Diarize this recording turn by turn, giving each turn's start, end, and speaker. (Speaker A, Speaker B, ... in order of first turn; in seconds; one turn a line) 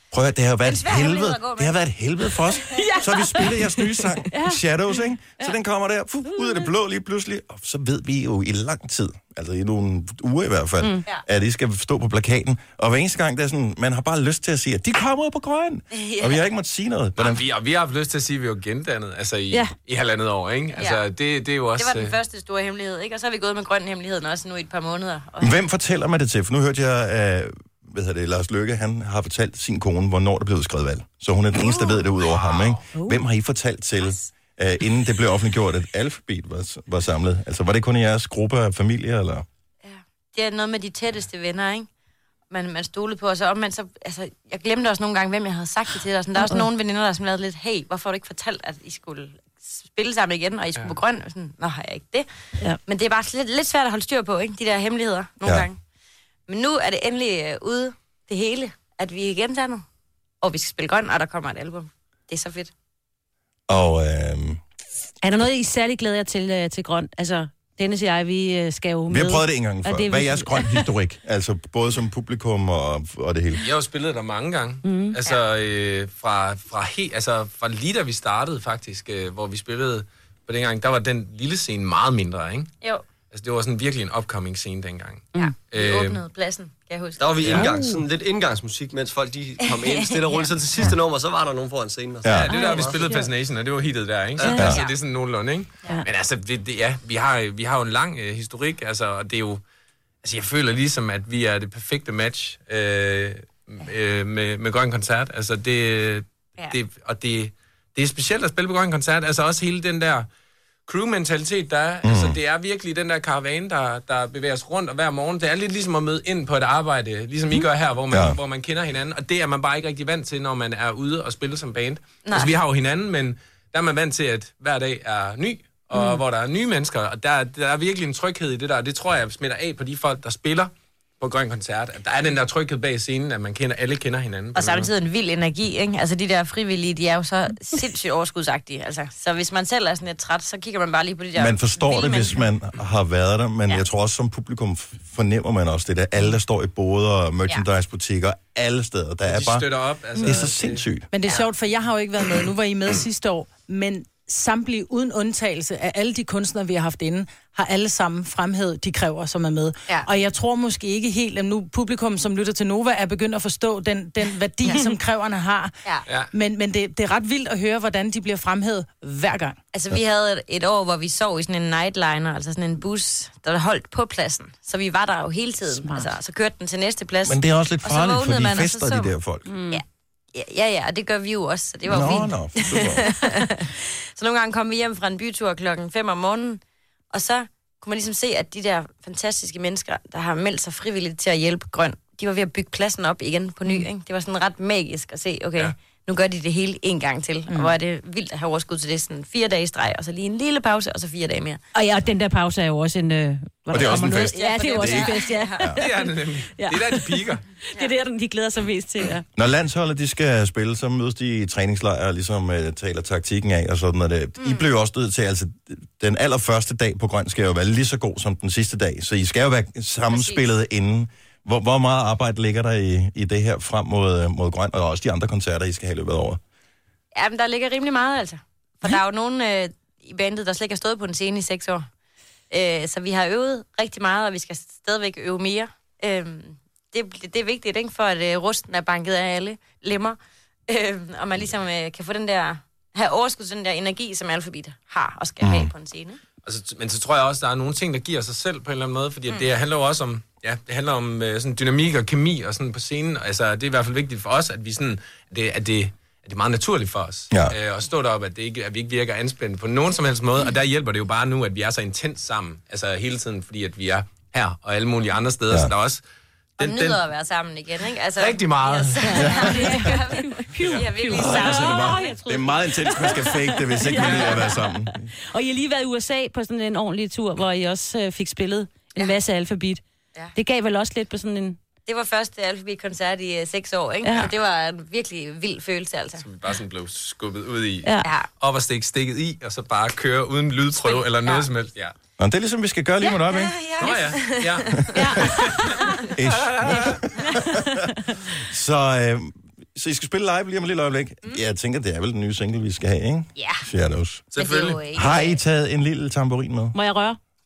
Speaker A: 0.1-17.4
Speaker B: 0.6-1.8
Speaker C: 2.7-4.6
Speaker C: 6.3-6.7
Speaker B: 15.9-16.4
Speaker D: 17.2-22.1
Speaker B: 20.7-21.0
Speaker B: 21.8-25.6
Speaker A: 25.4-39.4
Speaker D: 32.2-32.8
Speaker B: 34.0-34.3
Speaker B: 39.8-41.9
Speaker B: 42.5-52.3
Speaker B: 52.9-55.8
Speaker B: 56.5-59.8
Speaker B: 60.4-62.7
Speaker A: 63.7-64.6
Speaker C: 65.2-70.8
Speaker A: 69.1-73.6
Speaker D: 73.6-82.7
Speaker C: 74.8-75.2
Speaker D: 83.3-86.2
Speaker B: 85.3-87.5
Speaker E: 87.2-93.2
Speaker C: 87.5-88.0
Speaker B: 89.7-90.5
Speaker A: 92.2-92.5
Speaker D: 92.3-99.6
Speaker C: 92.5-93.3
Speaker E: 94.4-94.6
Speaker C: 94.4-94.7
Speaker A: 94.6-94.8
Speaker B: 94.6-94.9
Speaker D: 100.2-110.3
Speaker D: 110.9-134.9
Speaker A: 112.0-112.4
Speaker A: 118.1-118.4
Speaker B: 122.2-122.5
Speaker B: 134.5-142.4
Speaker A: 141.4-151.1
Speaker D: 149.2-150.8
Speaker F: 151.1-165.7
Speaker B: 164.6-164.9
Speaker F: 166.3-169.6
Speaker B: 169.7-179.1
Speaker C: 175.7-176.1
Speaker A: 177.2-179.5
Speaker C: 179.5-179.8
Speaker B: 180.3-186.6
Speaker A: 181.9-183.1
Speaker B: 187.1-201.6
Speaker C: 201.7-209.2
Speaker A: 203.7-205.8
Speaker B: 204.2-205.7
Speaker D: 205.8-207.4
Speaker A: 209.3-226.4
Speaker B: 214.4-214.7
Speaker B: 220.1-220.4
Speaker B: 227.1-231.8
Speaker B: 232.5-246.2
Speaker A: 245.4-245.7
Speaker D: 246.4-266.0
Speaker D: 266.6-267.0
Speaker B: 266.6-272.1
Speaker D: 268.2-269.1
Speaker C: 269.0-279.8
Speaker A: 269.2-269.5
Speaker D: 270.6-270.9
Speaker A: 271.1-275.1
Speaker D: 273.9-274.4
Speaker C: 280.3-281.6
Speaker B: 281.9-286.2
Speaker C: 284.0-284.3
Speaker D: 286.2-291.9
Speaker B: 288.0-288.3
Speaker B: 290.7-291.5
Speaker A: 292.2-293.6
Speaker B: 293.0-295.1
Speaker D: 293.8-297.0
Speaker A: 294.7-295.4
Speaker C: 294.9-296.0
Speaker A: 296.1-304.3
Speaker B: 303.4-303.7
Speaker D: 304.3-304.8
Speaker B: 304.3-305.4
Speaker A: 304.9-306.7
Speaker C: 306.7-307.2